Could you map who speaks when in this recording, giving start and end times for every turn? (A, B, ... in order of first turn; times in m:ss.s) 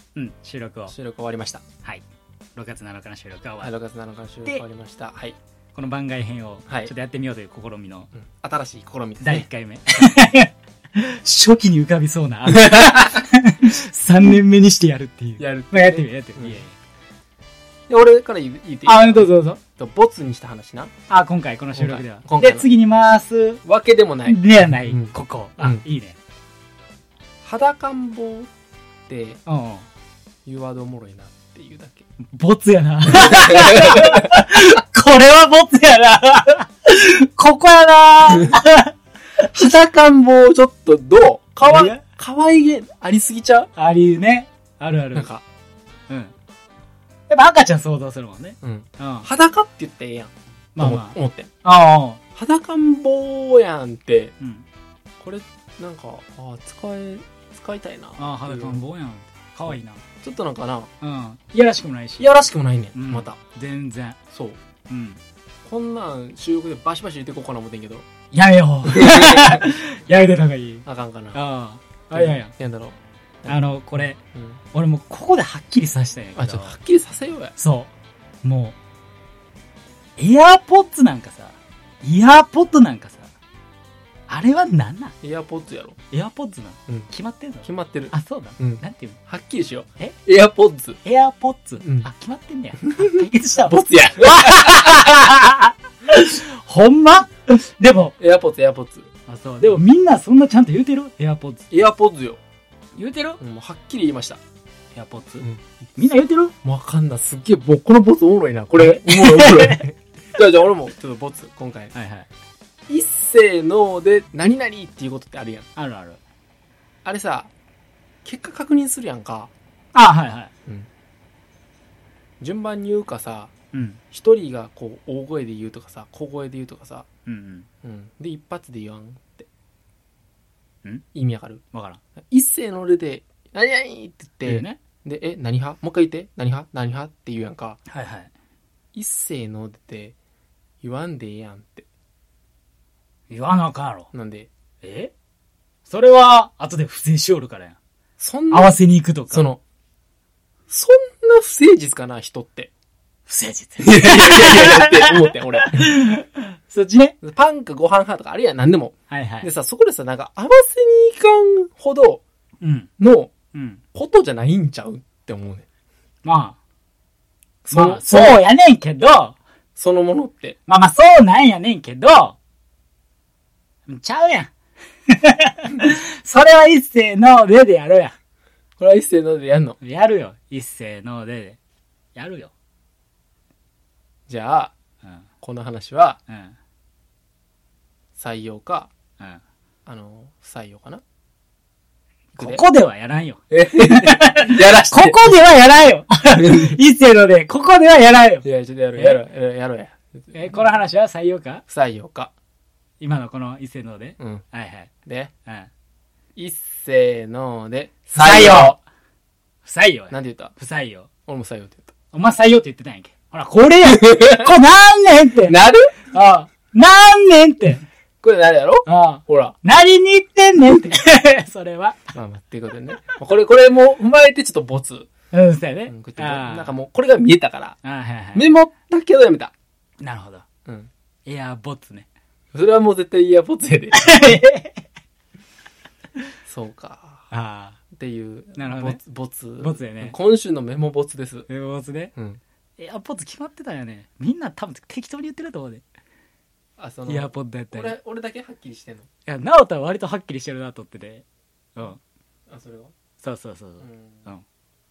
0:00.2-0:01.0 A
0:00.9-0:01.6 B
0:02.6-0:03.7 A
0:03.6-0:05.4 B
0:05.8-0:08.1 A
0:08.1-0:09.5 B
0:09.2-0:16.8 A
0:12.6-0:13.0 B
0:15.4-0:16.6 B
0:17.9-0:20.9 B
0:18.9-0:19.6 A
0:21.1-0:23.6 A
0:21.8-0:22.7 B
0:23.6-0:25.9 B
0:24.2-0:26.2 A
0:27.4-0:28.5 B
0:29.1-0:29.4 B
0:29.5-0:29.9 A
0:30.4-0:32.0 B
0:32.2-0:38.9 A
0:33.2-0:34.2 B
0:38.3-0:38.6 B
0:39.4-0:43.7 B
0:41.6-0:42.0 A
0:43.8-0:45.3 A
0:45.1-0:45.4 B
0:47.3-0:49.3 A
0:48.6-0:51.5 B
0:50.8-0:52.2 A
0:52.4-0:54.4 B
0:54.4-0:54.7 A
0:55.2-0:58.8 B
0:58.2-1:00.0 A
1:00.2-1:00.9 B
1:01.0-1:02.3 A
1:02.2-1:03.4 B
1:03.0-1:04.2 A
1:04.3-1:04.6 B
1:04.9-1:05.2 A
1:05.6-1:08.1 B
1:08.3-1:12.5 A
1:08.9-1:09.7 B
1:10.8-1:11.4 B
1:12.1-1:13.7 B
1:13.5-1:14.2 A
1:14.3-1:14.6 B
1:14.7-1:16.8 A
1:16.4-1:17.6 B
1:17.6-1:17.9 A
1:18.4-1:18.8 A
1:20.2-1:23.3 A
1:24.3-1:25.2 A
1:25.2-1:26.0 B
1:26.1-1:29.2 A
1:27.6-1:31.0 B
1:31.0-1:38.2 A
1:31.8-1:32.1 B
1:32.8-1:35.1 B
1:38.2-1:39.1 B
1:39.3-1:41.7 A
1:41.7-1:42.4 B
1:43.0-1:43.4 A
1:43.4-1:44.4 B
1:45.0-1:46.5 A
1:46.6-1:51.9 B
1:48.8-1:49.8 A
1:51.9-1:52.3 A
1:52.9-1:55.7 B
1:55.8-1:56.2 A
1:57.0-1:57.5 B
1:58.2-1:59.5 B
1:59.9-2:00.5 A
2:02.4-2:03.5 B
2:03.7-2:04.0 A
2:04.1-2:07.1 B
2:07.3-2:07.7 A
2:07.8-2:09.5 B
2:11.1-2:11.6 B
2:11.7-2:12.0 A
2:12.2-2:17.8 B
2:14.4-2:14.8 A
2:17.9-2:18.3 A
2:18.9-2:20.2 B
2:20.8-2:21.9 B
2:23.3-2:24.1 A
2:24.1-2:24.5 B
2:24.8-2:25.1 A
2:25.9-2:27.8 A
2:28.2-2:28.8 B
2:28.5-2:29.5 A
2:29.3-2:29.6 B
2:30.7-2:32.7 B
2:33.3-2:37.2 A
2:33.8-2:35.9 B
2:37.2-2:42.2 B
2:39.1-2:39.5 A
2:42.6-2:42.9 A
2:43.0-2:43.3 B
2:43.5-2:43.8 A
2:43.9-2:45.7 B
2:46.2-2:46.6 A
2:47.7-2:49.4 A
2:47.7-2:48.4 B
2:49.8-2:50.6 B
2:50.7-2:52.4 A
2:53.9-2:54.5 A
2:55.1-2:58.2 A
2:58.8-2:59.8 B
2:59.8-3:01.6 A
3:02.2-3:02.5 A
3:04.3-3:04.7 B
3:05.4-3:06.2 B
3:06.3-3:06.6 A
3:08.2-3:08.9 B
3:09.9-3:11.0 B
3:12.3-3:19.2 A
3:13.5-3:15.3 B
3:16.3-3:16.8 B
3:18.4-3:20.4 B
3:20.3-3:21.6 A
3:21.7-3:22.3 B
3:23.0-3:24.9 A
3:24.2-3:24.4 B
3:25.1-3:25.3 B
3:26.4-3:28.8 B
3:28.2-3:28.8 A
3:29.6-3:31.1 A
3:30.1-3:30.5 B
3:31.3-3:31.9 B
3:32.1-3:37.8 A
3:33.9-3:34.5 B
3:35.4-3:36.0 B
3:38.2-3:39.6 B
3:38.8-3:42.0 A
3:42.1-3:45.1 B
3:45.3-3:46.7 A
3:45.9-3:47.8 B
3:47.8-3:48.5 A
3:48.3-3:49.5 B
3:50.0-3:50.4 A
3:51.3-3:52.1 A
3:52.5-3:54.2 B
3:54.0-3:54.8 A
3:56.5-3:57.3 B
3:57.3-3:57.8 A
3:57.9-4:01.5 B
3:58.6-3:59.0 A
3:59.6-4:00.2 A
4:01.5-4:02.1 A
4:02.2-4:02.4 B
4:02.8-4:05.8 A
4:06.8-4:09.1 B
4:07.1-4:07.9 A
4:09.3-4:11.2 A
4:12.5-4:12.9 B
4:13.2-4:14.4 A
4:13.8-4:14.3 B